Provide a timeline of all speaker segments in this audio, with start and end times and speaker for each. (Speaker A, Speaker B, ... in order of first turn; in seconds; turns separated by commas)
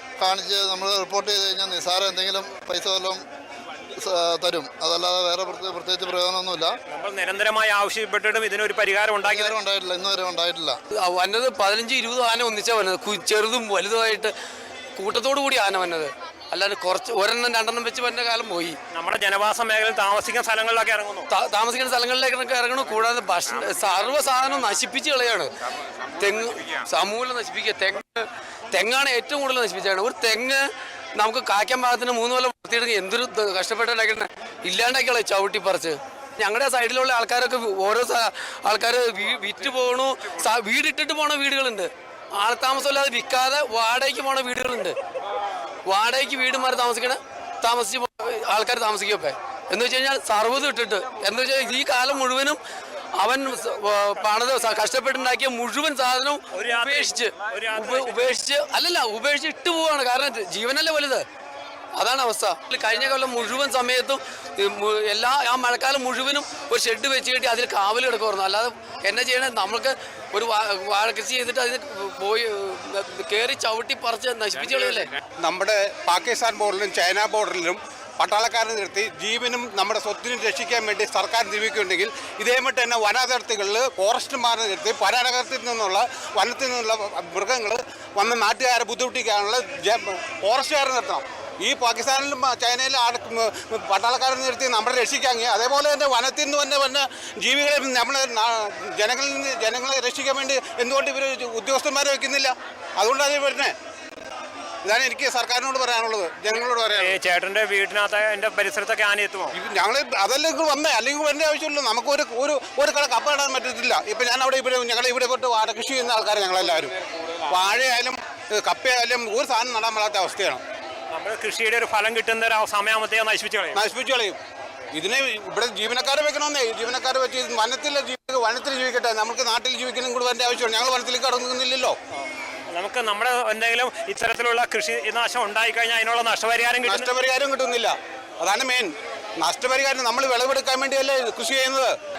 Speaker A: 0.2-3.2, Speaker A: 4.0-6.7, Speaker B: 6.9-9.6, Speaker A: 9.3-10.8, Speaker C: 10.9-14.3, Speaker C: 15.0-18.8, Speaker B: 18.9-21.3, Speaker C: 21.3-25.5, Speaker C: 26.2-30.6, Speaker C: 31.2-45.0, Speaker C: 45.9-52.6, Speaker C: 53.2-61.2, Speaker B: 56.5-58.3, Speaker C: 62.0-75.1, Speaker D: 75.4-103.7, Speaker D: 104.9-107.0, Speaker B: 107.0-109.5, Speaker D: 109.6-116.9, Speaker D: 117.5-120.6, Speaker B: 121.1-123.8, Speaker D: 123.8-124.4, Speaker D: 125.0-131.9, Speaker B: 132.2-137.1, Speaker D: 136.9-137.9, Speaker D: 138.4-138.9, Speaker D: 139.4-141.9